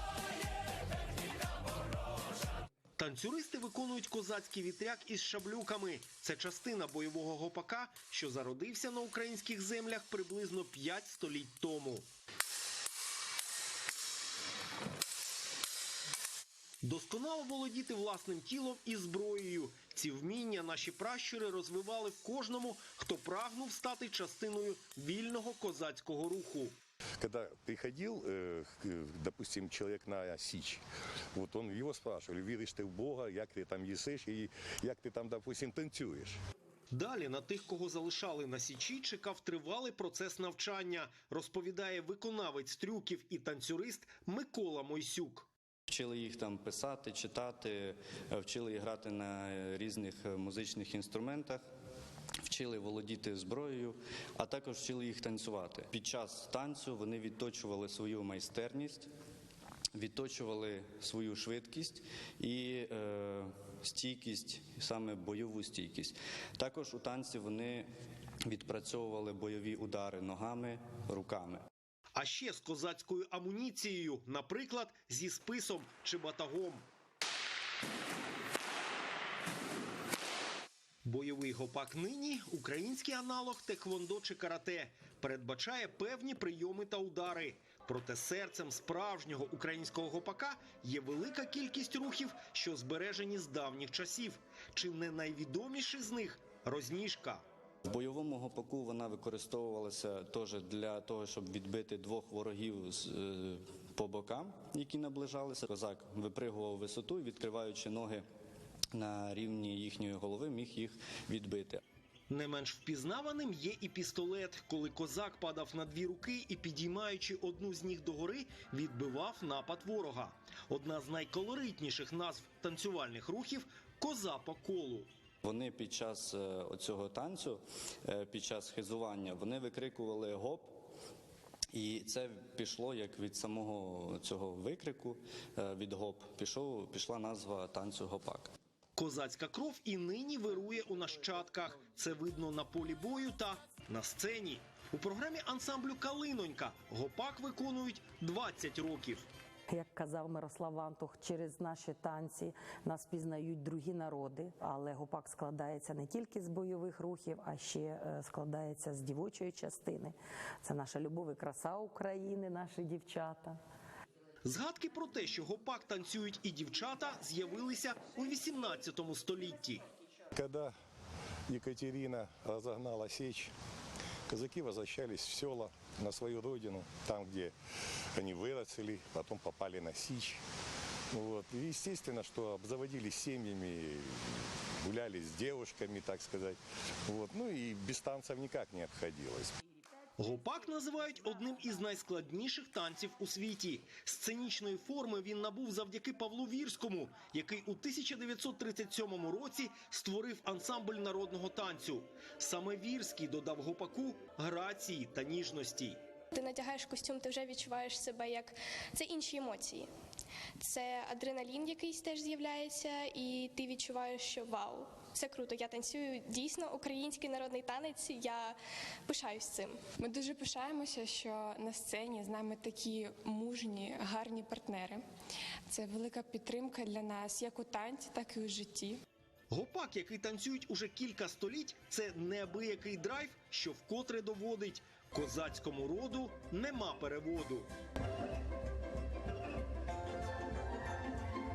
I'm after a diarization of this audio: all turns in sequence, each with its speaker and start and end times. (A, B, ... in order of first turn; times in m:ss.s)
0:03.0-0:12.1 A
0:16.8-0:26.8 A
0:27.2-0:30.8 B
0:31.3-0:36.4 B
0:36.9-0:45.5 A
0:45.9-0:51.6 C
0:52.4-0:59.1 C
0:59.9-1:07.9 C
1:08.4-1:11.6 C
1:12.2-1:16.8 A
1:21.0-1:37.4 A
1:37.8-1:48.2 C
1:48.9-1:51.8 C
1:52.3-2:05.1 A
2:05.4-2:10.7 C
2:11.7-2:18.5 C
2:19.0-2:29.2 A
2:29.7-2:43.6 D
2:44.4-2:49.8 A
2:50.3-2:50.7 B
2:51.5-2:53.5 B
2:54.3-2:57.5 B
2:58.1-3:00.4 B
3:01.1-3:09.5 B
3:10.2-3:26.0 A
3:26.3-3:29.9 E
3:30.6-3:39.9 E
3:40.0-3:45.0 F
3:45.7-3:49.0 F
3:49.5-3:57.7 A